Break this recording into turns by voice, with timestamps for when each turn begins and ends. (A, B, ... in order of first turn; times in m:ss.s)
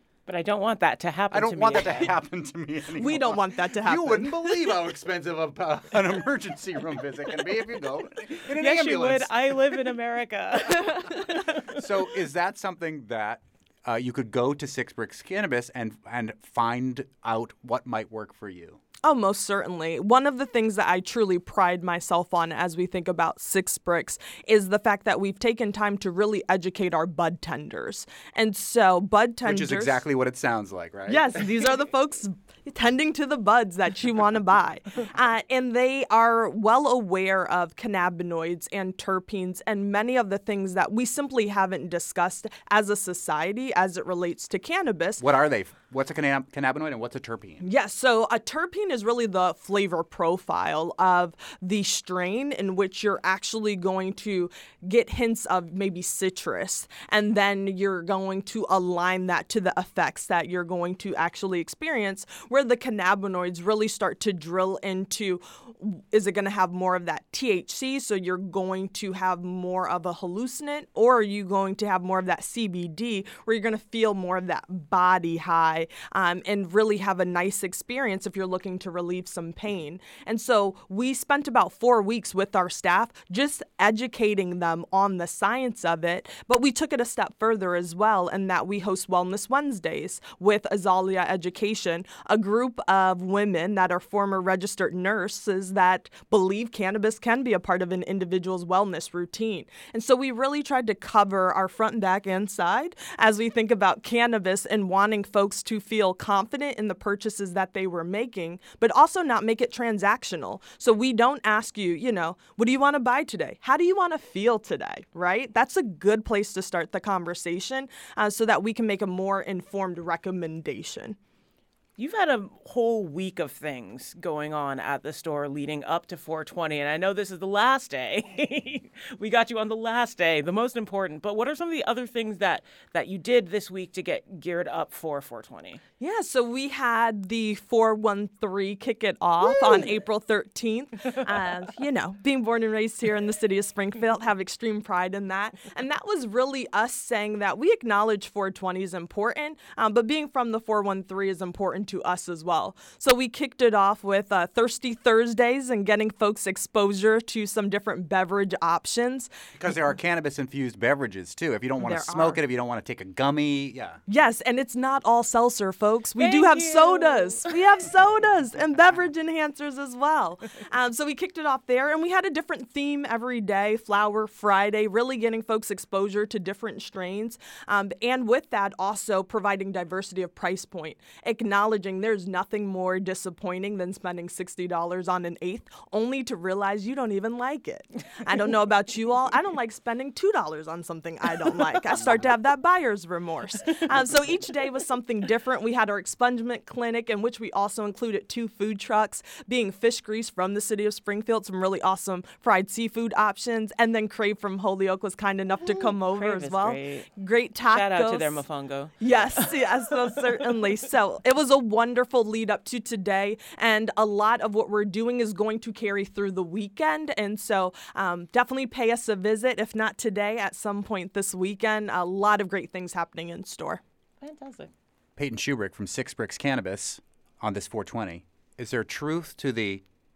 0:00.3-0:02.1 A
0:01.3-0:09.3 B
0:03.0-0:04.7 C
0:08.5-0:11.8 A
0:11.7-0:18.8 B
0:19.0-0:30.0 C
0:29.4-0:31.5 B
0:31.1-0:45.2 C
0:45.2-0:47.6 B
0:47.6-2:01.2 C
2:02.0-2:15.8 A
2:16.0-2:39.3 C
2:39.6-2:44.0 B
2:41.8-2:42.4 C
2:44.1-3:28.4 C
2:46.2-2:47.5 A
3:12.0-3:12.2 B
3:25.6-3:27.1 A
3:27.7-3:29.6 A
3:29.0-3:43.8 C
3:44.2-3:44.7 A
3:45.2-3:49.8 B